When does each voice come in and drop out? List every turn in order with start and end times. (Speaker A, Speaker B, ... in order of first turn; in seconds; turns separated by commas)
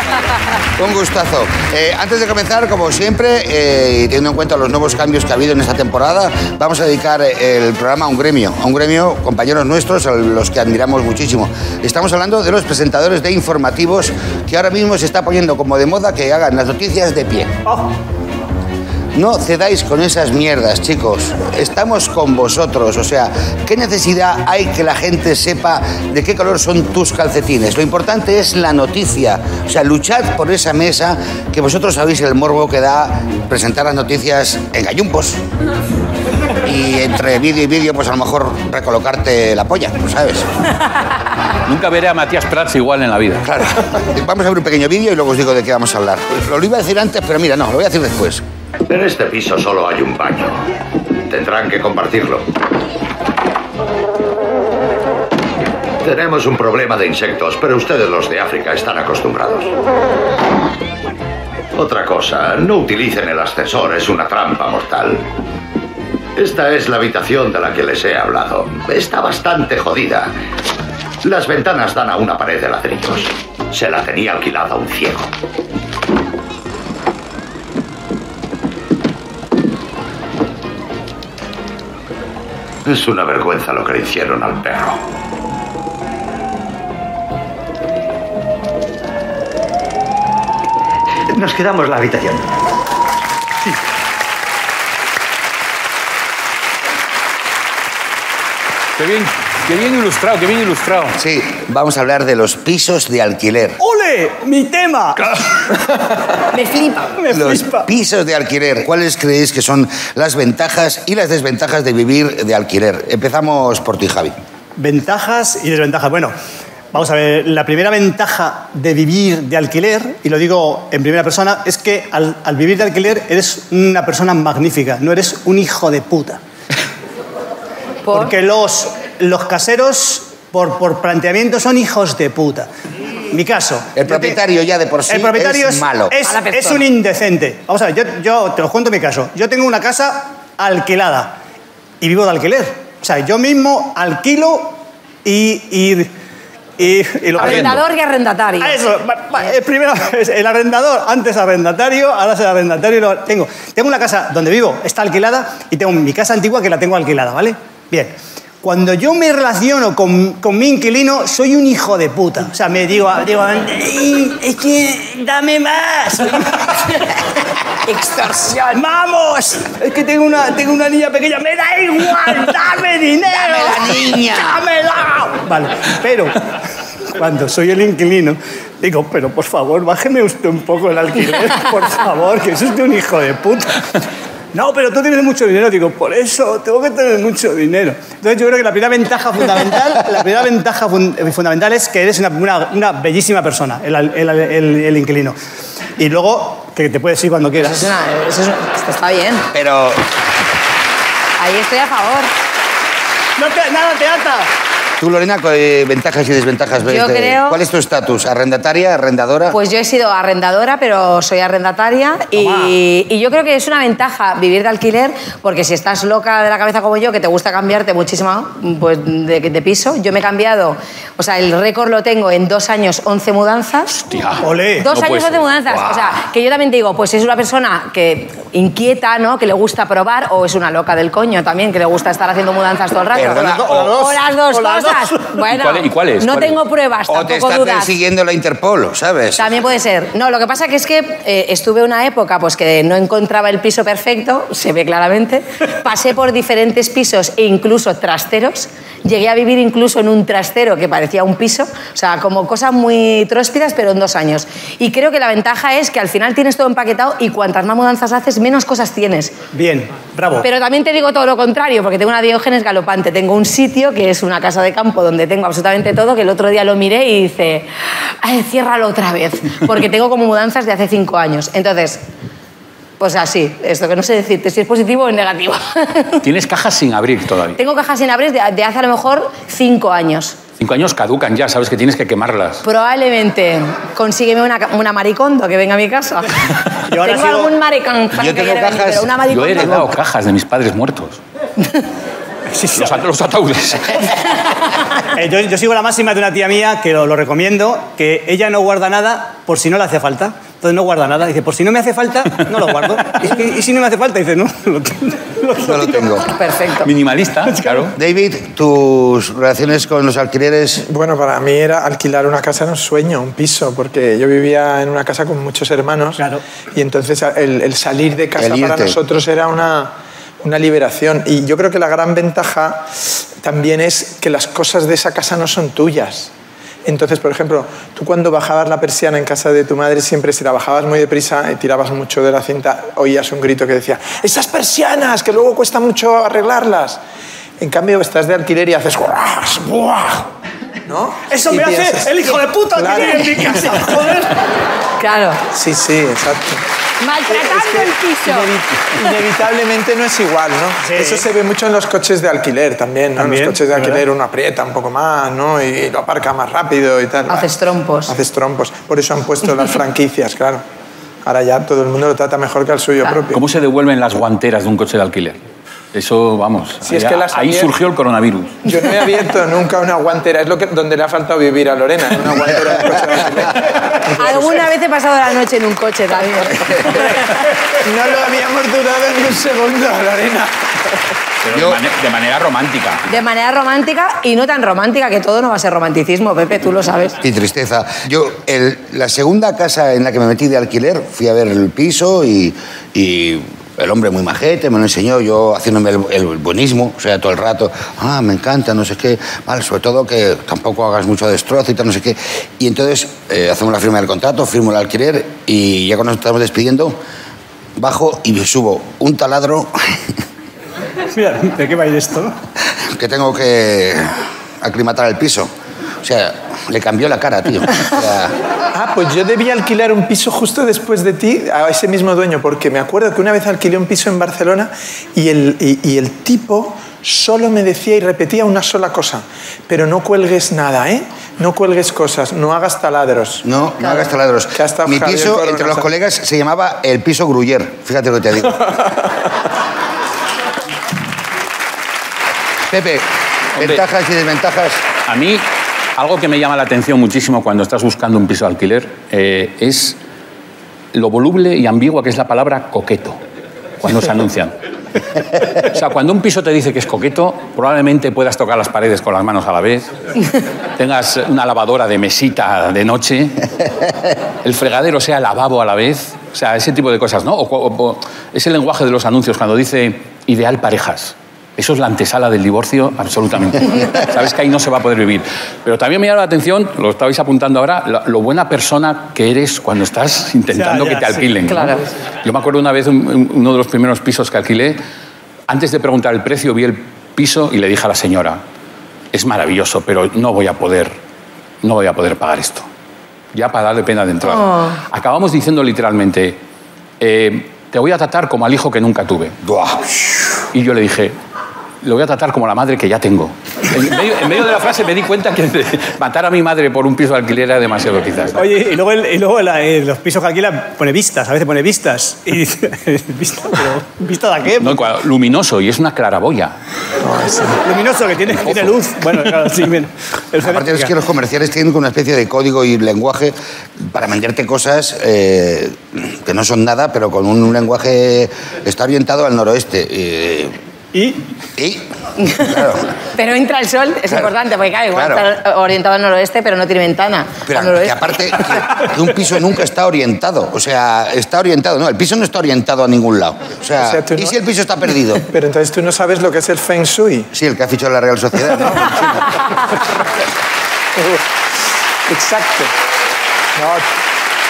Speaker A: 0.8-17.6, Speaker B: 17.6-17.9, Speaker A: 19.1-35.4, Speaker A: 36.6-40.6, Speaker C: 41.6-43.4, Speaker A: 43.4-48.4, Speaker D: 48.9-50.6, Speaker D: 51.3-52.5, Speaker D: 56.0-59.7, Speaker D: 61.7-65.2, Speaker D: 66.4-70.3, Speaker D: 71.2-75.3, Speaker D: 82.8-85.0, Speaker D: 91.3-92.5, Speaker C: 99.0-101.2, Speaker A: 101.2-103.8, Speaker B: 103.8-105.7, Speaker E: 106.5-107.2, Speaker B: 107.2-107.9, Speaker A: 107.3-114.3, Speaker B: 114.8-116.3, Speaker B: 116.9-126.4, Speaker E: 128.1-128.3, Speaker B: 128.1-132.7, Speaker B: 133.3-134.4, Speaker A: 133.9-136.1, Speaker B: 135.1-141.3, Speaker E: 136.2-136.8, Speaker B: 142.0-146.1, Speaker B: 146.8-147.8, Speaker E: 147.4-148.8, Speaker C: 147.4-147.8, Speaker B: 148.6-167.0, Speaker E: 167.8-168.8, Speaker B: 168.7-176.4, Speaker A: 173.3-174.6, Speaker B: 177.1-183.9, Speaker B: 184.5-195.3, Speaker B: 196.0-197.9, Speaker E: 197.6-199.5, Speaker A: 199.5-200.0, Speaker E: 201.4-202.3, Speaker B: 203.4-204.5, Speaker A: 205.0-209.6, Speaker E: 206.8-207.6, Speaker E: 209.5-224.1, Speaker B: 212.3-212.8, Speaker C: 224.1-226.1, Speaker B: 224.4-224.9, Speaker E: 224.8-237.9, Speaker A: 233.1-233.9, Speaker B: 233.4-235.4, Speaker C: 235.5-236.6, Speaker A: 237.1-239.5, Speaker E: 239.4-259.3, Speaker B: 259.5-260.5, Speaker E: 260.4-267.7, Speaker E: 268.2-272.0, Speaker E: 273.0-276.2, Speaker C: 276.2-277.6, Speaker E: 277.6-280.4, Speaker C: 280.6-282.6, Speaker E: 282.6-286.3, Speaker B: 286.9-287.5, Speaker E: 287.0-289.9, Speaker A: 288.1-289.9, Speaker C: 289.3-291.2, Speaker B: 292.5-293.0, Speaker C: 292.8-294.2, Speaker B: 295.1-306.2, Speaker A: 305.6-306.3, Speaker E: 306.3-306.9, Speaker C: 306.8-307.9, Speaker B: 307.5-307.9, Speaker A: 307.9-310.8, Speaker F: 310.8-326.3, Speaker A: 318.4-319.0, Speaker F: 326.9-337.0, Speaker F: 337.6-340.3, Speaker F: 340.9-344.0, Speaker B: 341.3-344.4, Speaker E: 345.0-345.4, Speaker F: 345.5-346.6, Speaker E: 347.0-348.5, Speaker F: 347.3-357.5, Speaker B: 350.8-351.3, Speaker B: 353.2-354.0, Speaker E: 357.3-358.1, Speaker F: 358.1-360.6, Speaker F: 361.2-363.4, Speaker C: 363.3-365.4, Speaker C: 365.9-368.6, Speaker F: 366.8-367.7, Speaker F: 368.6-374.6, Speaker E: 374.1-377.4, Speaker F: 377.7-380.6, Speaker C: 381.4-383.1, Speaker A: 381.5-381.8, Speaker E: 383.1-387.2, Speaker A: 387.2-407.0, Speaker A: 407.8-410.0, Speaker B: 411.1-412.3, Speaker A: 412.8-415.5, Speaker A: 416.0-418.3, Speaker F: 418.7-433.4, Speaker A: 433.4-438.6, Speaker F: 434.5-435.9, Speaker A: 442.7-444.8, Speaker C: 443.6-443.8, Speaker C: 445.1-445.4, Speaker C: 446.0-450.0, Speaker C: 450.9-453.2, Speaker C: 453.8-454.5, Speaker C: 455.5-459.9, Speaker C: 460.8-463.5, Speaker C: 464.4-484.8, Speaker B: 480.5-481.2, Speaker E: 481.5-481.9, Speaker C: 485.5-488.4, Speaker C: 489.1-490.9, Speaker C: 491.6-492.7, Speaker C: 493.3-496.4, Speaker E: 494.2-494.8, Speaker C: 497.0-499.4, Speaker A: 499.4-499.9, Speaker C: 500.5-501.1, Speaker C: 501.8-508.5, Speaker B: 508.4-514.8, Speaker C: 514.6-516.6, Speaker F: 517.0-517.6, Speaker B: 517.5-520.9, Speaker C: 518.3-519.5, Speaker A: 520.4-530.5, Speaker B: 530.9-531.2, Speaker A: 531.6-532.9, Speaker E: 533.2-538.8, Speaker A: 534.9-535.2, Speaker A: 537.5-545.3, Speaker F: 543.8-544.4, Speaker F: 545.2-547.3, Speaker A: 547.3-549.4, Speaker F: 551.0-551.2, Speaker F: 552.0-552.7, Speaker F: 553.5-553.9